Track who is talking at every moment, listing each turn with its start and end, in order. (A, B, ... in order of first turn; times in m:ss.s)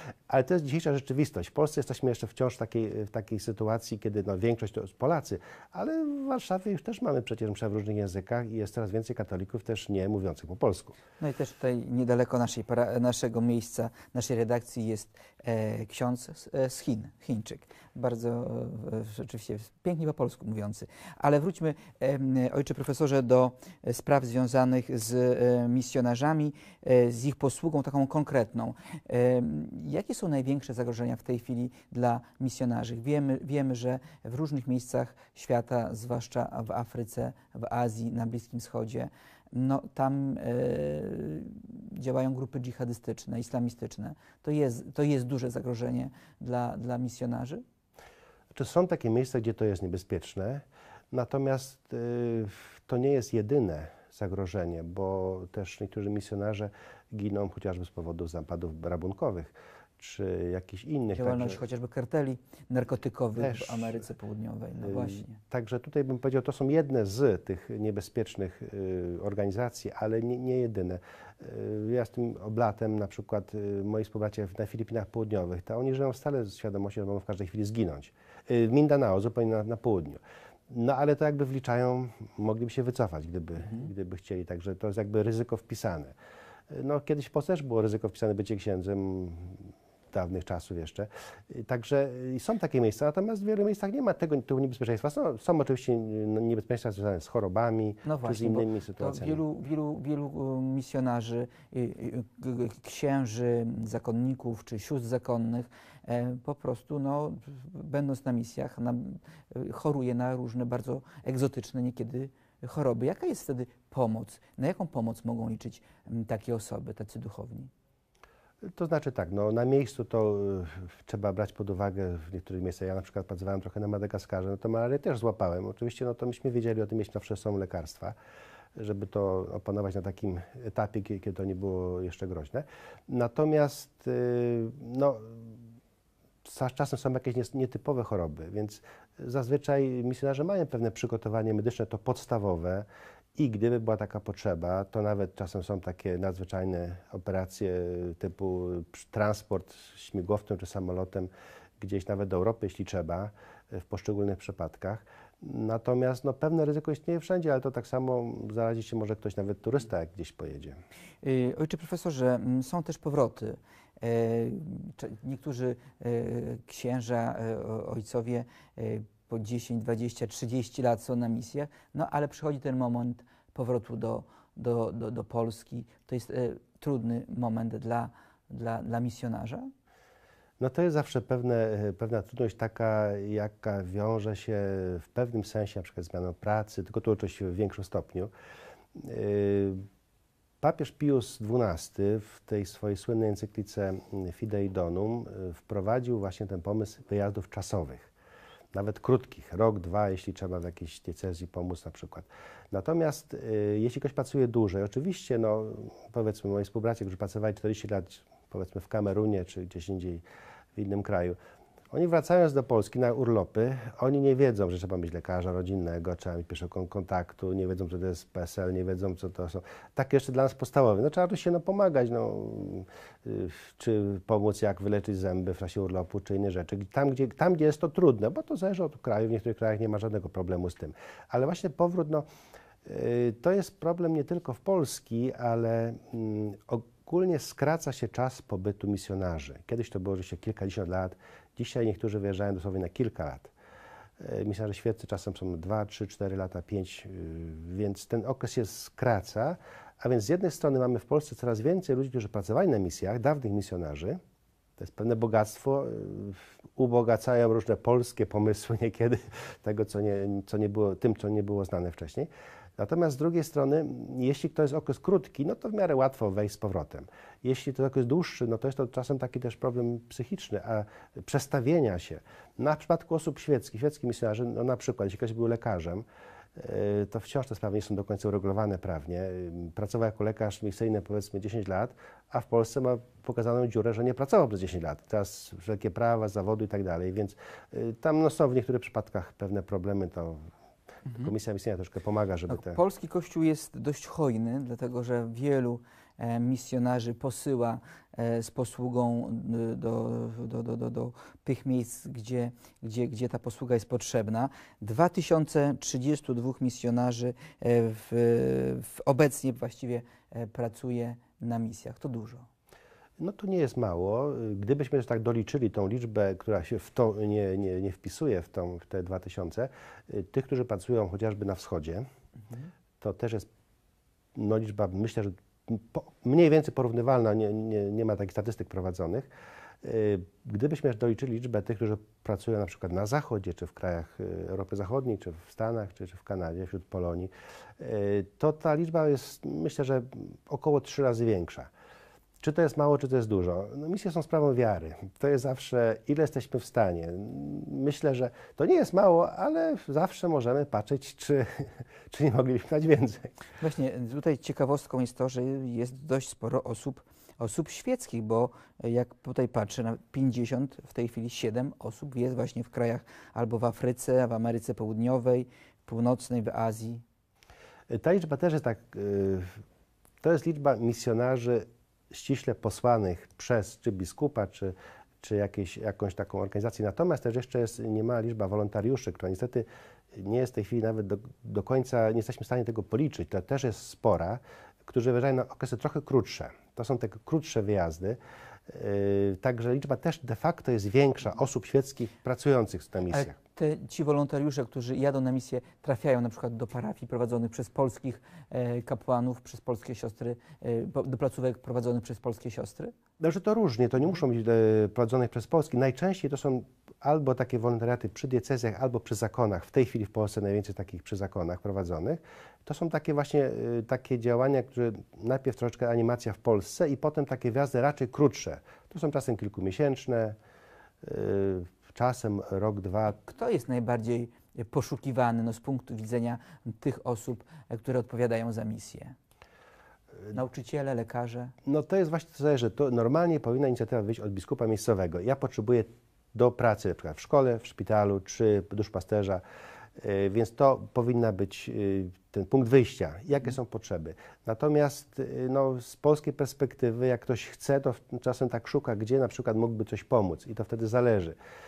0:00.3-0:11.0 A
0:11.2-0:47.6 B
0:48.5-1:01.6 A
1:01.2-1:05.4 B
1:03.4-1:04.0 A
1:04.8-1:26.1 A
1:26.7-1:39.4 A
1:38.0-1:57.7 B
1:58.7-2:08.1 A
2:08.8-2:15.5 A
2:16.4-2:22.8 A
2:23.4-2:40.8 A
2:41.2-2:59.7 B
3:00.6-3:08.3 A
3:08.9-3:09.8 A
3:10.6-3:18.1 A
3:18.7-3:30.2 A
3:30.8-3:31.4 A
3:31.9-3:52.2 A
3:52.8-4:03.5 A
4:04.2-4:14.2 A
4:14.8-4:36.0 A
4:36.6-4:50.5 A
4:51.1-4:52.8 A
4:52.5-5:12.4 B
5:13.2-5:22.0 A
5:23.0-5:23.5 A
5:24.3-5:29.3 A
5:29.8-5:41.7 A
5:42.4-5:53.3 A
5:53.6-6:07.0 B
6:07.9-6:09.6 A
6:10.2-6:33.4 A
6:33.1-6:42.9 B
6:43.2-7:00.4 A
7:01.0-7:03.2 A
7:03.1-7:09.1 B
7:10.3-7:11.5 B
7:11.6-7:19.4 A
7:20.0-7:31.4 A